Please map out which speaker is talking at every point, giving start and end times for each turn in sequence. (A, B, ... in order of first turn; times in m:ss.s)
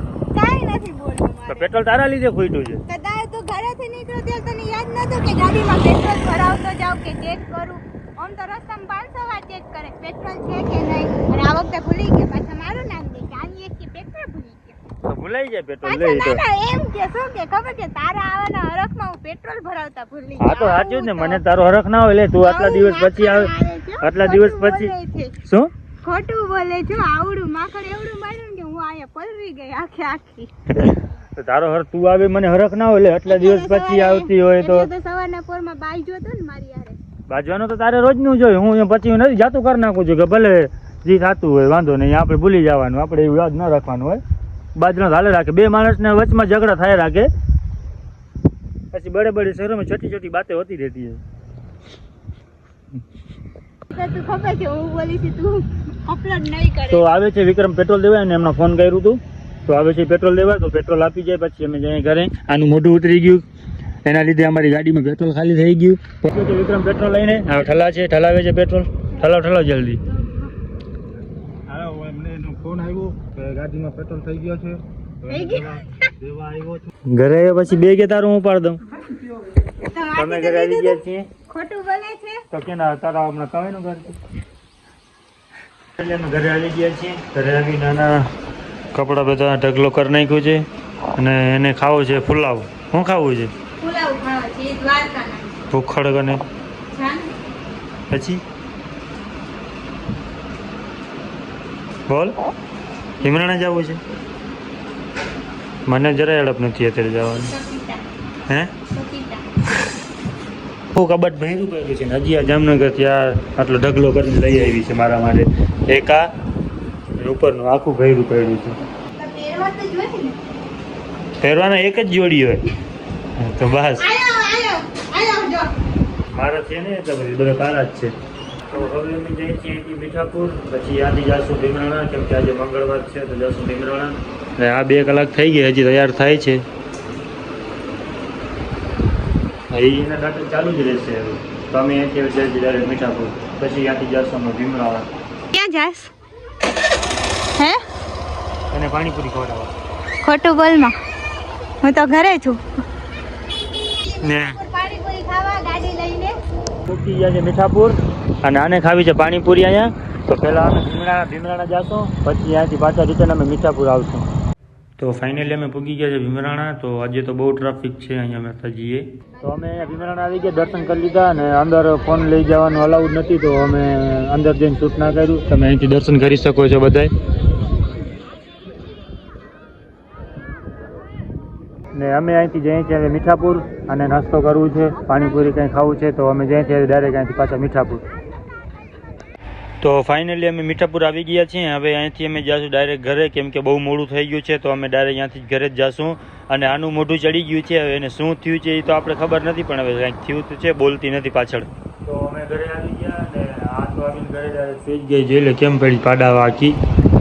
0:00.3-0:01.7 A
0:01.5-0:02.8 B
0:02.9-0:14.8 A
0:15.1-0:16.4 B
0:15.8-0:21.4 A
0:20.4-0:23.5 B
0:22.4-0:25.4 A
0:24.0-0:24.9 B
0:26.0-0:30.9 A
0:30.7-0:34.9 B
0:33.2-0:37.0 A
0:37.3-0:44.2 B
0:44.8-0:47.3 B
0:48.9-0:51.2 B
0:53.9-0:57.0 A
0:56.9-1:03.4 B
1:04.0-1:10.0 B
1:11.8-1:14.8 C
1:15.2-1:16.1 A
1:16.6-1:18.8 B
1:19.6-1:22.4 A
1:20.2-1:21.3 B
1:22.5-1:24.2 B
1:26.0-1:28.3 B
1:28.9-1:33.5 B
1:33.8-1:35.5 A
1:35.7-1:36.4 B
1:36.9-1:37.3 A
1:38.1-1:38.4 B
1:42.1-1:42.3 B
1:43.2-1:44.0 B
1:45.9-1:47.6 B
1:47.5-1:48.0 A
1:48.5-1:48.8 B
1:48.9-1:49.4 A
1:50.9-1:56.3 B
1:57.1-1:58.8 B
1:59.2-2:00.4 A
2:01.4-2:02.7 B
2:03.4-2:04.1 B
2:04.0-2:05.7 A
2:06.3-2:08.1 B
2:08.7-2:16.6 B
2:19.7-2:25.1 B
2:25.5-2:26.1 A
2:28.7-2:29.7 B
2:30.2-2:31.0 A
2:31.8-2:32.6 A
2:33.7-2:36.3 A
2:34.2-2:34.6 B
2:36.8-2:44.3 B
2:45.0-2:57.1 B
3:01.9-3:08.0 B
3:09.8-3:26.8 B